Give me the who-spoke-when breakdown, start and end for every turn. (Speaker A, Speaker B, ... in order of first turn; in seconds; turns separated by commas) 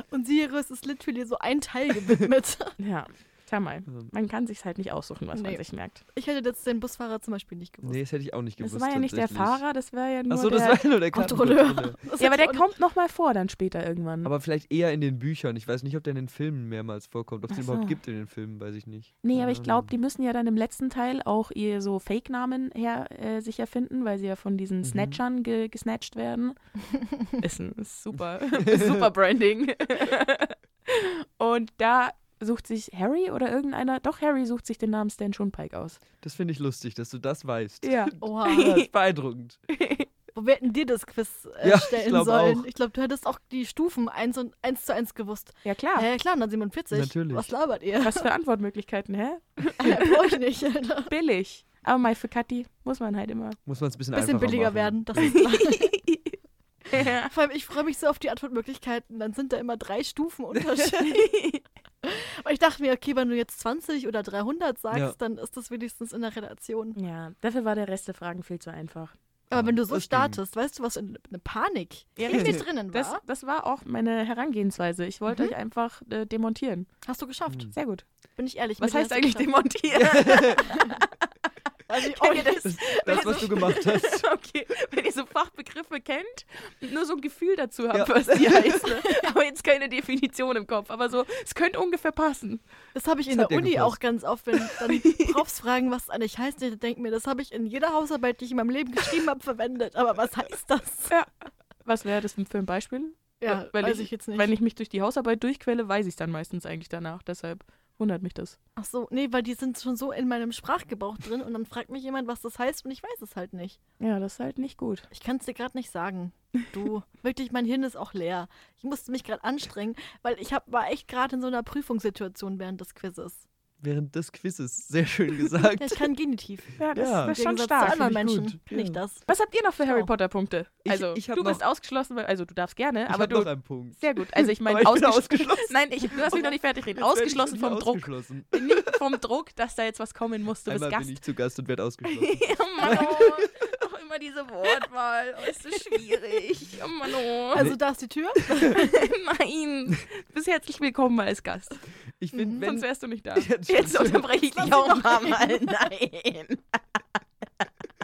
Speaker A: 0.1-2.8, Speaker B: 2.8-6.0, Speaker A: 5.3-8.0, Speaker C: 7.8-9.6, Speaker B: 8.6-10.8, Speaker C: 10.3-12.0, Speaker A: 11.1-12.7, Speaker B: 12.2-14.3, Speaker C: 14.2-19.9, Speaker B: 17.5-18.0, Speaker B: 19.2-26.6, Speaker C: 24.8-25.2, Speaker B: 27.4-36.0, Speaker C: 28.6-29.1, Speaker C: 36.2-39.6, Speaker B: 37.8-38.9, Speaker A: 38.2-38.8, Speaker B: 39.7-40.1, Speaker A: 40.3-48.3, Speaker C: 41.6-42.7, Speaker B: 45.6-46.1, Speaker C: 46.9-47.5, Speaker B: 48.0-50.3, Speaker A: 49.8-51.1, Speaker B: 51.1-53.6, Speaker C: 53.7-55.4, Speaker A: 54.1-56.0, Speaker B: 55.2-56.4, Speaker B: 56.9-57.3, Speaker A: 57.3-61.3, Speaker B: 60.8-61.6, Speaker A: 62.0-67.0, Speaker B: 67.0-69.1, Speaker C: 69.5-70.4, Speaker A: 69.5-73.2, Speaker B: 72.2-76.9, Speaker C: 72.3-72.6, Speaker A: 75.3-75.5, Speaker A: 77.0-77.7, Speaker C: 77.5-77.7, Speaker B: 77.7-78.0, Speaker A: 78.4-79.5, Speaker B: 78.8-81.1, Speaker C: 79.9-80.7, Speaker A: 80.6-81.0, Speaker A: 81.9-83.5, Speaker B: 81.9-92.6, Speaker C: 82.6-84.2, Speaker C: 87.9-88.8, Speaker A: 93.0-101.1, Speaker C: 93.3-94.0, Speaker B: 94.9-95.4, Speaker B: 101.8-108.6, Speaker A: 103.4-104.5, Speaker A: 108.8-113.8, Speaker B: 114.0-115.1, Speaker A: 115.1-123.5, Speaker C: 123.8-126.1, Speaker A: 125.8-129.3, Speaker B: 126.8-128.0, Speaker C: 126.9-129.0, Speaker B: 129.3-141.2, Speaker A: 129.8-130.1, Speaker C: 130.8-131.6, Speaker C: 133.1-138.9, Speaker C: 140.7-143.5, Speaker B: 142.1-147.7, Speaker A: 147.5-149.0, Speaker B: 148.6-151.8, Speaker C: 152.2-154.3, Speaker A: 152.3-152.7, Speaker B: 152.4-157.0, Speaker A: 154.6-155.7